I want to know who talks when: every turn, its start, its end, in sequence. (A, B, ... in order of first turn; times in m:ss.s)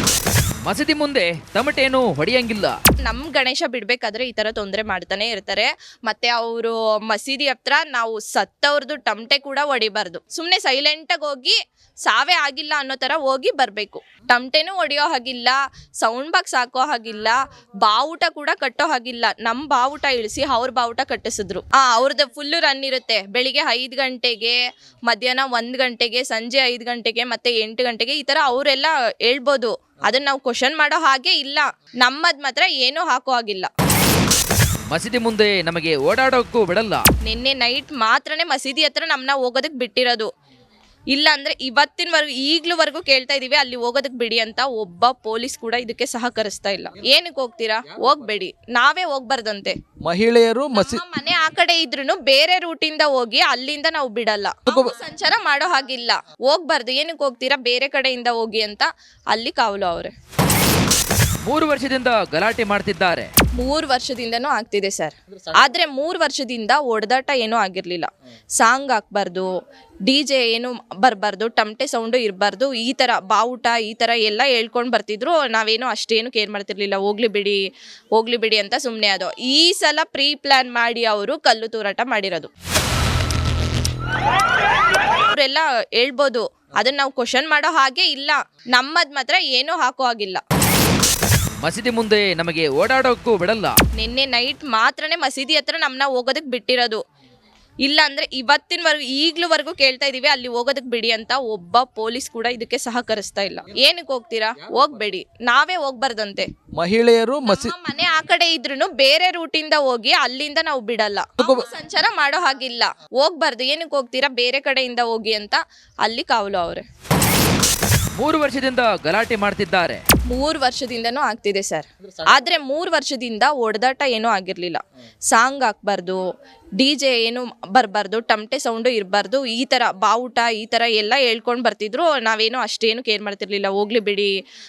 0:00.6-0:02.8 A
0:03.0-0:24.6 B
0:25.1-0:33.7 B
0:34.9-0:37.0 A
0:37.2-0:40.3 B
0:41.1-0:49.8 B
0:50.0-0:51.0 C
0:50.7-1:00.1 B
0:54.7-0:54.9 C
1:01.4-1:03.3 A
1:03.6-1:09.5 B
1:10.1-1:17.6 B
1:18.2-1:22.5 B
1:25.3-1:30.4 B
1:31.6-1:33.8 A
1:34.0-1:37.0 B
1:37.8-1:46.5 B
1:46.8-1:47.7 C
1:47.4-1:56.8 B
1:51.4-1:51.6 C
1:58.2-2:00.0 A
2:00.3-2:06.2 B
2:06.8-2:14.3 B